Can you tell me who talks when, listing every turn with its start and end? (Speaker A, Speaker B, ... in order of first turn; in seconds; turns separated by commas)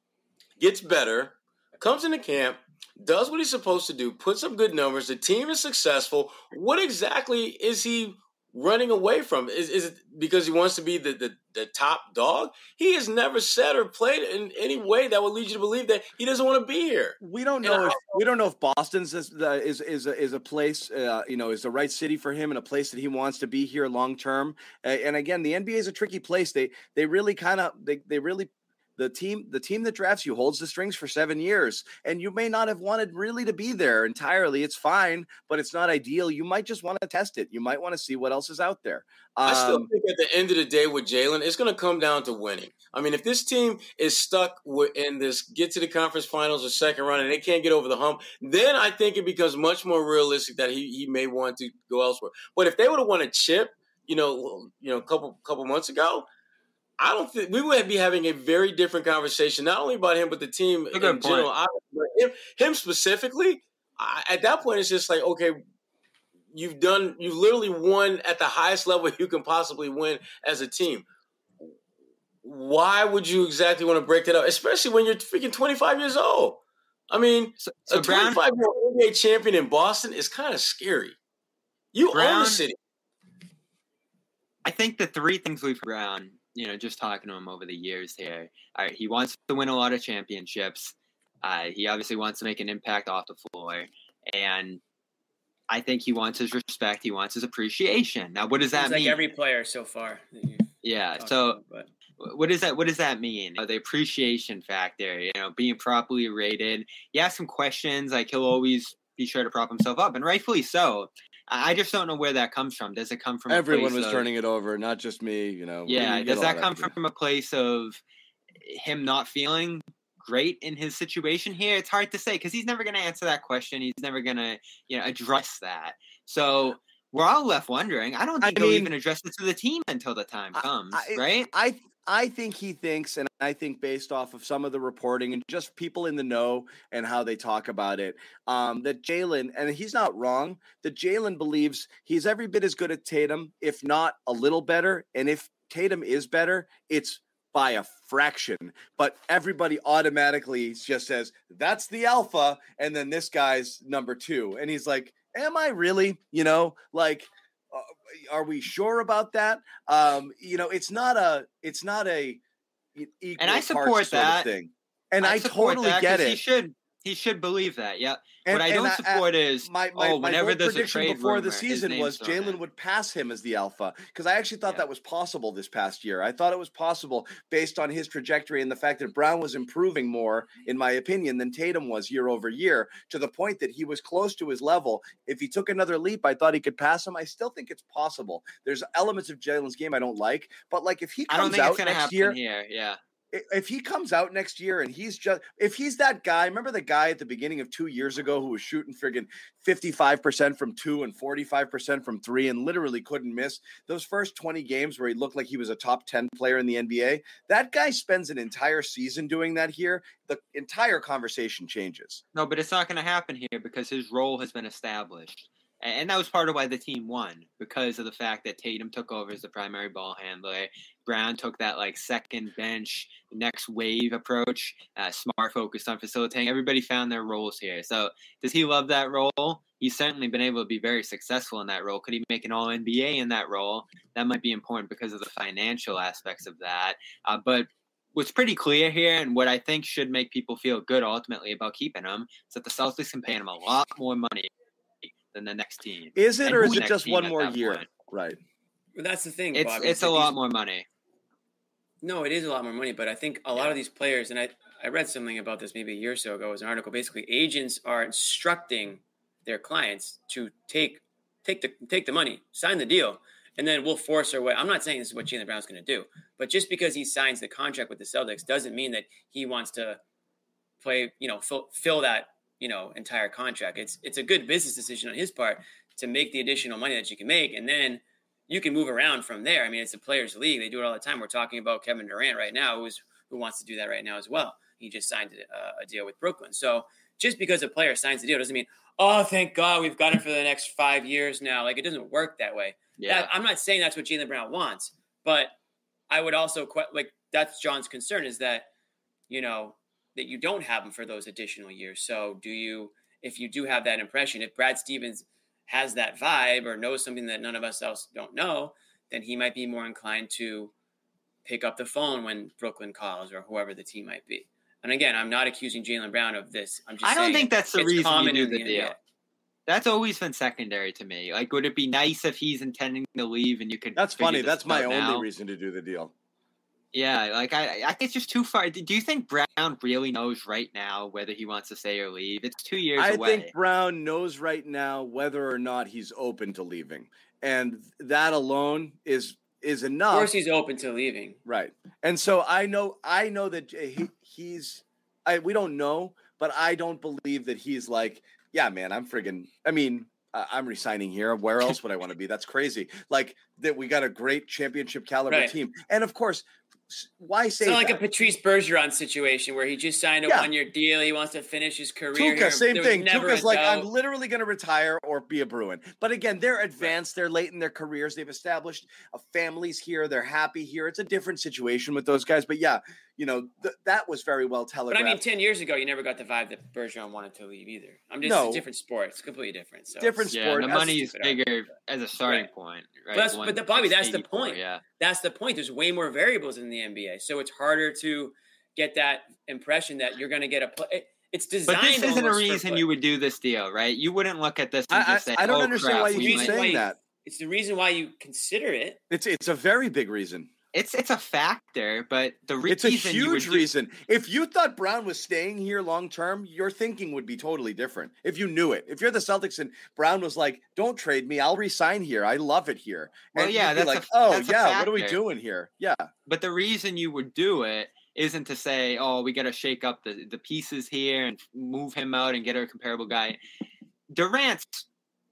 Speaker A: 0.6-18.2, Speaker B: 17.2-39.9, Speaker A: 39.5-56.3, Speaker A: 57.0-65.6, Speaker C: 60.9-61.5, Speaker A: 66.5-71.1, Speaker A: 72.4-81.2, Speaker C: 77.6-78.4, Speaker A: 81.9-82.8, Speaker C: 82.1-82.6, Speaker C: 84.7-94.8, Speaker C: 95.7-99.2, Speaker D: 98.8-101.9, Speaker C: 100.8-101.6, Speaker C: 102.2-114.3, Speaker B: 113.5-116.9, Speaker C: 115.9-118.0, Speaker C: 118.6-131.5, Speaker B: 128.4-128.9, Speaker B: 130.6-162.4, Speaker B: 162.9-166.4, Speaker C: 163.4-164.5, Speaker C: 165.2-172.6, Speaker B: 168.4-192.4, Speaker C: 191.3-193.0, Speaker B: 193.3-212.2, Speaker C: 212.3-244.5, Speaker C: 245.0-247.9, Speaker B: 246.2-248.4, Speaker D: 248.9-250.4, Speaker C: 249.5-250.9, Speaker D: 252.0-270.0, Speaker D: 270.8-295.6, Speaker C: 293.0-293.3, Speaker D: 296.1-298.7, Speaker D: 299.3-310.7, Speaker D: 311.4-319.0, Speaker C: 317.0-318.9, Speaker C: 319.7-325.3, Speaker B: 324.0-326.1, Speaker C: 326.9-333.5, Speaker B: 333.0-340.3, Speaker D: 340.1-341.4, Speaker B: 341.4-358.0, Speaker D: 355.3-355.6, Speaker D: 357.6-363.9, Speaker B: 360.3-360.5, Speaker B: 362.1-375.2, Speaker D: 374.9-381.5, Speaker B: 378.2-378.6, Speaker B: 380.0-381.0, Speaker C: 380.3-384.8, Speaker D: 382.2-382.5, Speaker D: 383.1-392.9, Speaker C: 391.7-396.5, Speaker B: 394.9-397.0, Speaker D: 396.1-399.0, Speaker B: 399.1-400.5, Speaker C: 400.7-403.6, Speaker B: 402.7-416.1, Speaker C: 413.4-415.2, Speaker C: 416.3-423.4, Speaker C: 424.1-424.9